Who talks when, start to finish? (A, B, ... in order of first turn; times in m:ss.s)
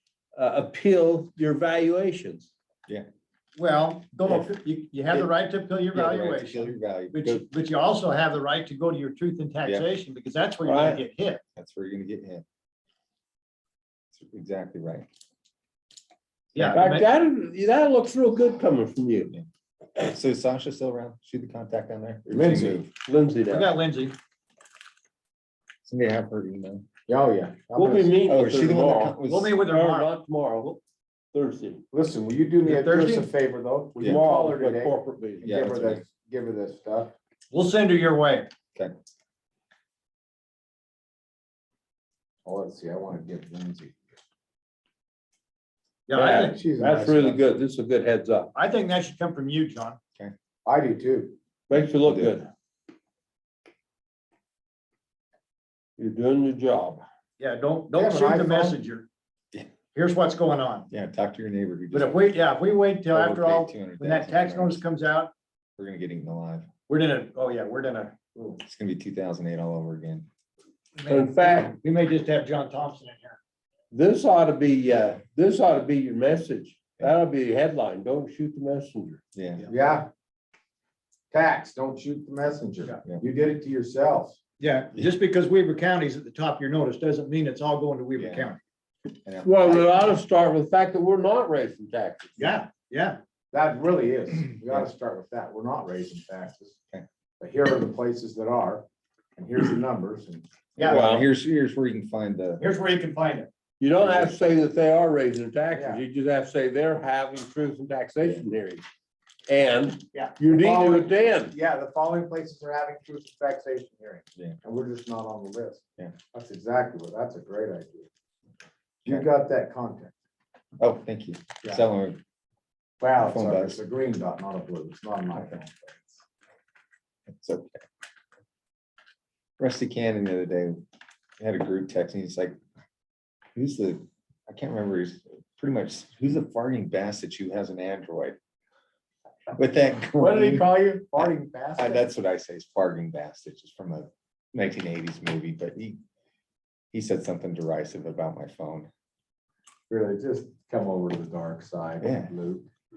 0:00.3-0:02.5 A
0:03.6-0:11.4 B
0:05.9-0:07.4 C
0:10.6-0:11.0 A
0:11.6-0:12.4 C
0:14.1-0:15.1 C
0:16.5-0:17.1 B
0:16.7-0:19.3 A
0:19.3-0:22.9 C
0:22.3-0:22.8 D
0:23.0-0:23.7 A
0:23.5-0:24.2 B
0:25.8-0:26.9 C
0:27.1-0:28.2 D
0:27.7-0:30.8 A
0:28.3-0:29.6 C
0:29.2-0:30.1 B
0:31.3-0:31.8 A
0:31.9-0:37.1 D
0:32.6-0:33.2 A
0:34.0-0:35.4 A
0:34.0-0:34.2 C
0:35.4-0:36.0 C
0:37.5-0:38.5 B
0:42.4-0:44.0 D
0:46.1-0:46.6 B
0:46.1-0:48.5 A
0:46.4-0:47.4 D
0:48.5-0:50.0 B
0:50.6-0:51.3 D
0:51.7-0:52.5 A
0:51.7-0:52.4 C
0:56.0-0:57.0 A
0:57.4-0:59.0 B
0:57.9-0:58.8 D
0:59.9-1:00.9 B
1:00.9-1:02.2 C
1:01.9-1:05.3 B
1:03.1-1:04.8 C
1:05.8-1:06.7 C
1:06.9-1:08.6 B
1:08.6-1:10.3 C
1:11.0-1:13.4 B
1:11.1-1:11.8 A
1:13.9-1:19.2 A
1:19.3-1:19.7 C
1:19.6-1:20.1 D
1:21.3-1:24.4 D
1:24.6-1:28.6 B
1:28.2-1:28.5 C
1:29.2-1:30.2 C
1:29.4-1:32.4 A
1:32.4-1:33.2 B
1:33.5-1:36.8 D
1:37.4-1:40.5 D
1:40.8-1:42.6 C
1:40.8-1:41.3 A
1:42.6-1:43.5 B
1:43.8-1:48.8 A
1:44.0-1:44.6 C
1:45.7-1:46.0 D
1:49.5-1:51.5 A
1:50.5-1:58.1 D
1:59.0-2:00.1 D
2:00.8-2:02.2 C
2:03.0-2:06.2 D
2:03.2-2:03.8 C
2:07.4-2:07.8 C
2:09.6-2:10.8 C
2:11.4-2:12.6 C
2:13.5-2:18.4 C
2:19.6-2:26.0 C
2:20.1-2:22.0 D
2:26.9-2:28.9 C
2:29.9-2:32.7 D
2:32.0-2:32.3 C